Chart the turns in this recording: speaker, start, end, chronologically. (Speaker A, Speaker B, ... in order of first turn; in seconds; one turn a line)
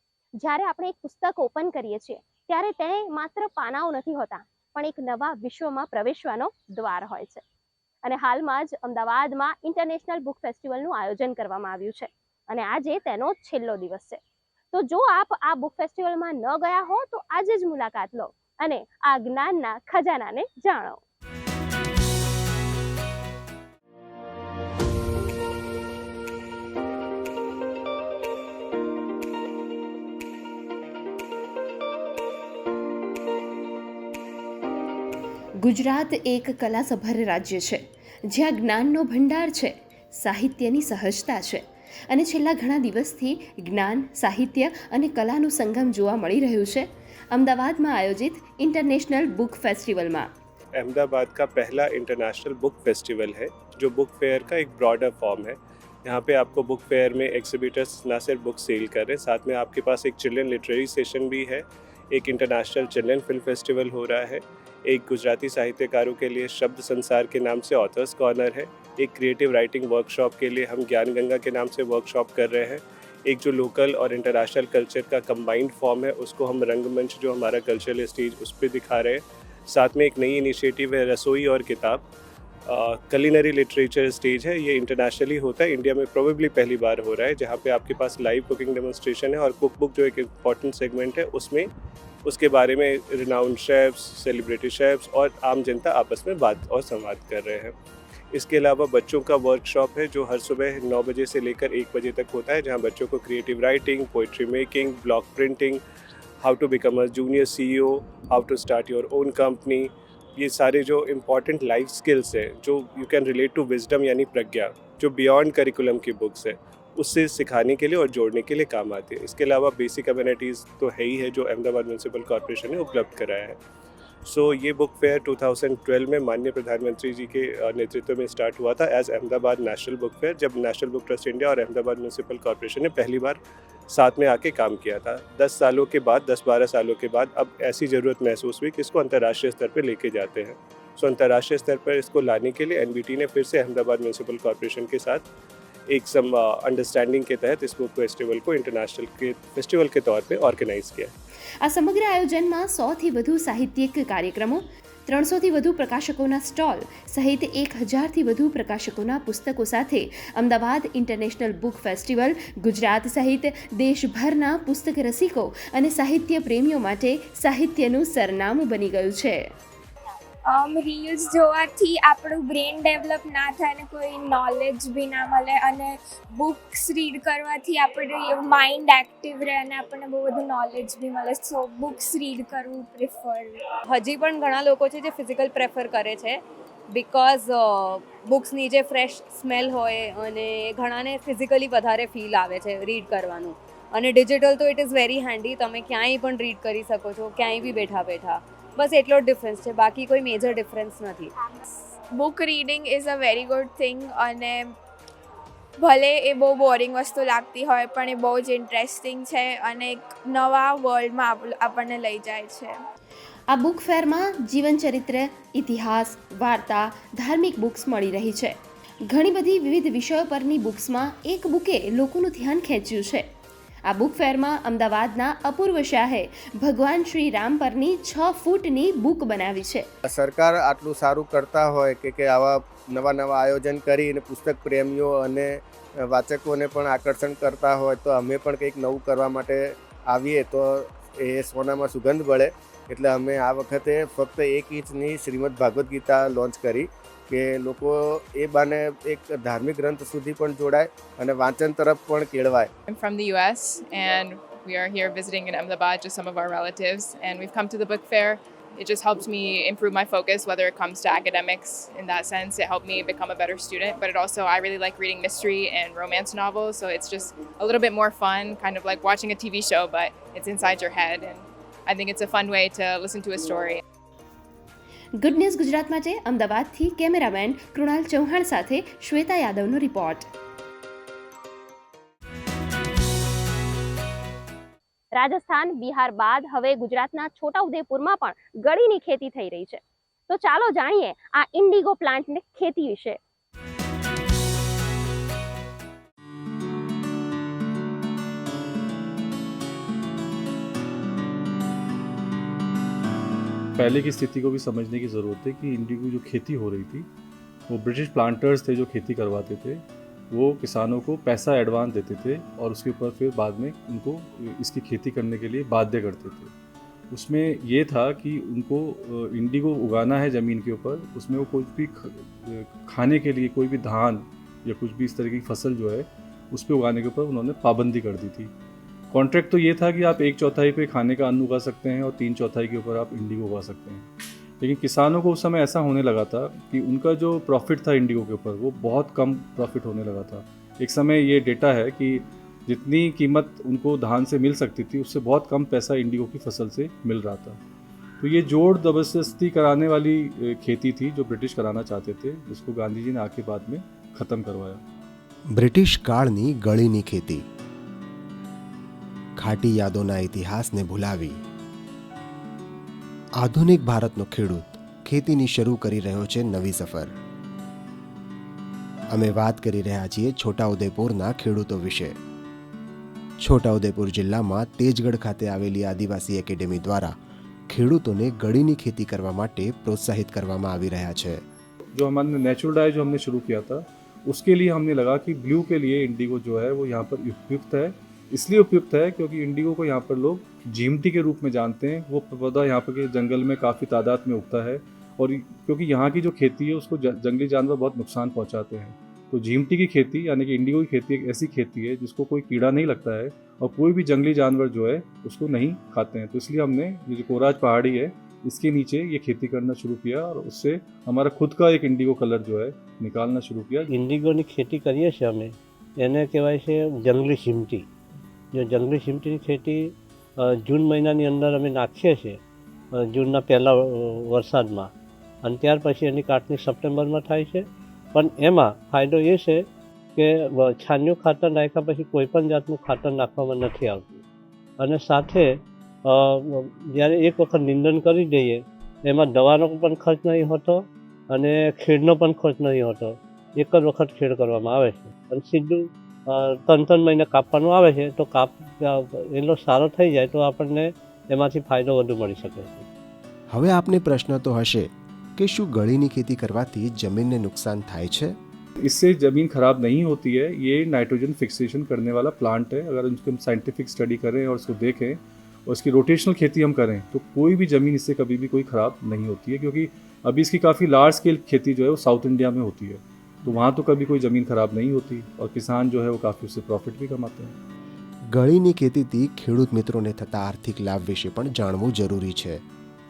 Speaker A: 0.4-7.4
Speaker A: 8.0-14.2
Speaker A: 14.7-21.0
Speaker B: 35.6-50.3
Speaker C: 50.8-82.0
Speaker C: 82.7-91.7
Speaker C: 92.2-97.7
Speaker C: 98.3-105.8
Speaker C: 106.4-123.6
Speaker C: 124.3-145.2
Speaker C: 145.9-151.1
Speaker B: 151.6-169.5
Speaker D: 170.5-183.6
Speaker E: 183.9-186.4
Speaker E: 186.9-201.3
Speaker D: 202.1-204.8
Speaker D: 205.8-212.8
Speaker B: 213.5-223.3
Speaker B: 223.9-229.9
Speaker F: 230.1-252.7
Speaker G: 252.9-273.8
Speaker B: 275.2-280.3
Speaker A: 285.2-293.2
Speaker H: 303.8-307.1
Speaker H: 307.7-316.5
Speaker H: 317.1-328.5
Speaker H: 329.1-334.1
Speaker H: 334.6-347.6
Speaker H: 348.2-354.8
Speaker I: 355.5-357.4
Speaker I: 359.4-361.4
Speaker I: 363.4-367.1
Speaker I: 369.1-372.2
Speaker I: 373.4-377.2
Speaker I: 377.7-381.4
Speaker H: 381.9-413.9
Speaker J: 413.9-417.9
Speaker J: 418.5-422.4
Speaker J: 422.9-424.9
Speaker J: 425.4-429.6
Speaker J: 430.2-434.2
Speaker J: 434.8-452.9
Speaker I: 453.5-458.4
Speaker H: 458.8-477.6
Speaker I: 478.3-482.6